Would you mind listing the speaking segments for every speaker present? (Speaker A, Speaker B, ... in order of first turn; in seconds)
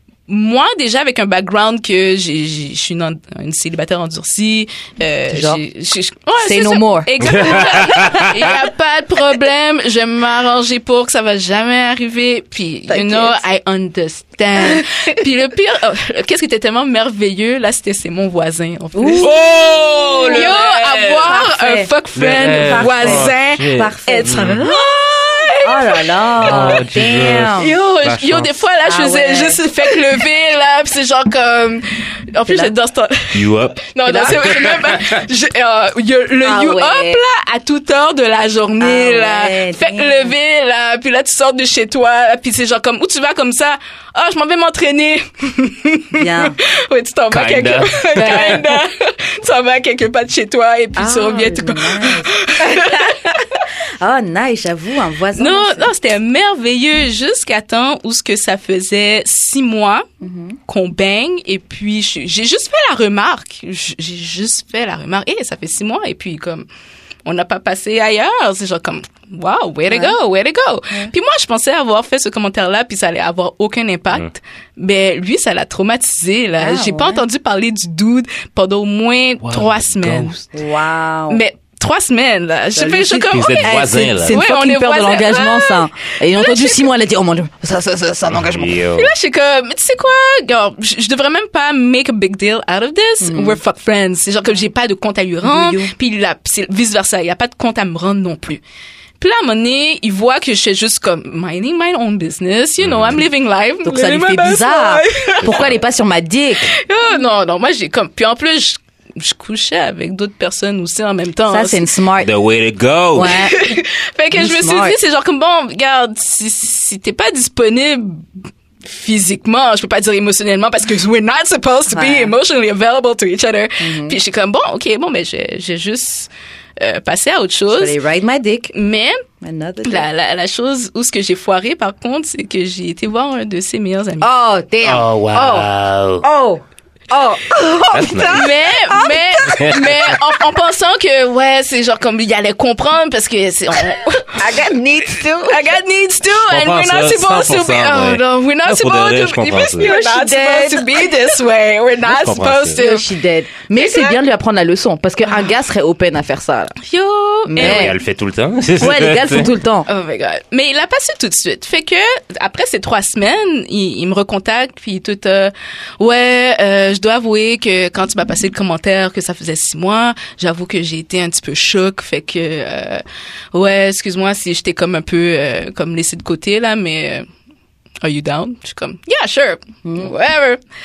Speaker A: 0.3-26.8, 27.5-53.6, 55.4-60.1, 60.7-66.7, 67.2-80.4, 81.3-86.9, 89.0-98.6, 99.2-105.6, 106.7-111.9, 113.3-118.3, 118.8-128.0, 128.7-129.2, 129.8-134.3, 138.3-144.6, 145.4-153.1, 153.7-154.2, 156.8-157.9, 159.9-177.3, 178.0-180.6
Speaker B: 5.3-5.6, 6.4-7.6, 12.9-13.4, 14.6-15.0, 18.9-21.9, 22.6-27.8, 28.8-30.2, 32.5-32.7, 34.0-34.7, 36.4-37.2, 38.8-40.3, 46.1-46.6, 48.2-48.8, 51.0-55.9, 60.2-60.6, 69.9-70.2, 76.6-77.2, 80.5-81.4, 82.8-88.8, 93.2-93.6, 95.4-95.9, 103.8-106.7, 111.5-112.3, 113.2-113.8, 114.3-115.0, 121.9-122.3, 123.8-124.2, 127.7-128.7, 129.4-130.1, 134.2-135.7, 136.2-140.4, 144.3-145.8, 149.8-151.3, 152.8-156.8, 157.5-158.0, 158.8-159.9, 179.8-180.1
Speaker C: 7.2-8.3, 19.2-21.3, 22.1-24.6, 26.4-28.6, 33.3-35.2, 47.3-48.6, 79.4-80.4, 83.3-84.4, 88.3-89.1, 102.8-103.2, 105.5-105.7, 112.2-113.5, 134.8-136.3, 137.9-138.5, 139.4-139.8, 146.2-149.9, 152.0-152.8, 157.6-159.5